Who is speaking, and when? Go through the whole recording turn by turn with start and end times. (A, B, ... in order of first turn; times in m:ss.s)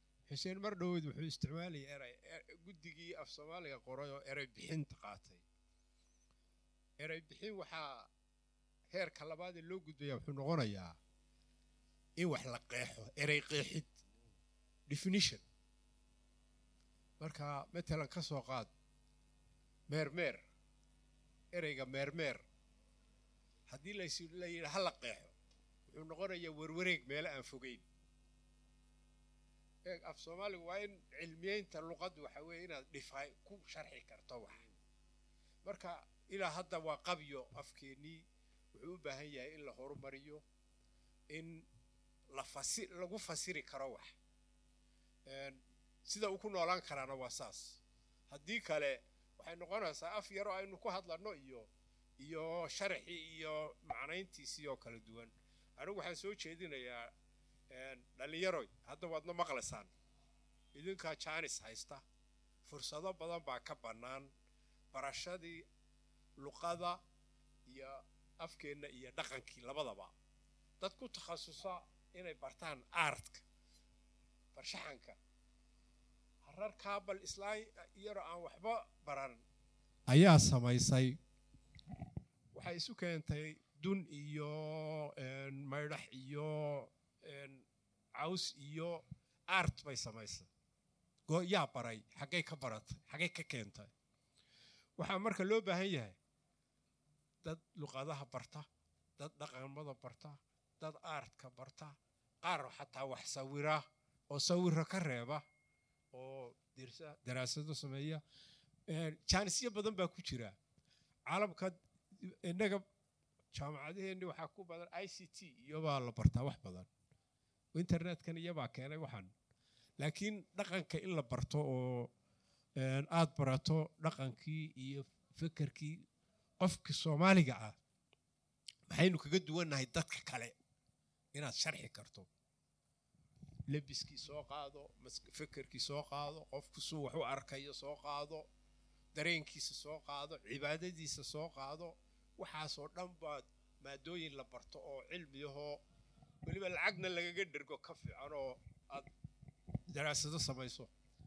0:00.3-0:05.4 A
0:07.0-0:08.1 A
0:08.9-0:11.0 A
0:12.2-0:13.9 A
0:14.9-0:15.4 A
0:17.2-0:18.7 A
0:19.9-0:20.4 A
0:21.5-0:22.4 A
0:23.7-0:25.3 A
0:25.9-0:27.8 A
0:29.8-0:34.7 A
0:35.6-0:38.2 A
0:38.7-0:40.4 A
0:41.3-0:41.6 A
0:42.3-0:44.1 A
0:45.3-0:51.7 A
0:52.2-0:57.1 A
0:57.7-0:59.9 A
1:00.7-1:02.0 A
1:02.6-1:04.3 A
1:04.9-1:05.6 A
1:06.4-1:07.0 A
1:07.7-1:10.1 A
1:10.8-1:13.4 A
1:14.5-1:15.2 A
1:16.4-1:19.4 A
1:20.1-1:21.2 A
1:22.5-1:27.6 A
1:28.2-1:30.5 A
1:31.3-1:33.9 A
1:35.0-1:36.2 A
1:37.4-1:38.6 A
1:39.2-1:45.4 A
1:46.1-1:48.2 A
1:48.9-1:50.6 A
1:51.3-1:52.8 A
1:53.5-1:56.9 A
1:57.7-1:59.3 A
2:00.0-2:02.1 A
2:02.8-2:06.0 A
2:06.6-2:07.8 A
2:08.9-2:10.5 A
2:11.3-2:12.3 A
2:13.7-2:18.5 A
2:19.1-2:25.8 A
2:26.4-2:29.1 A
2:29.9-2:30.9 A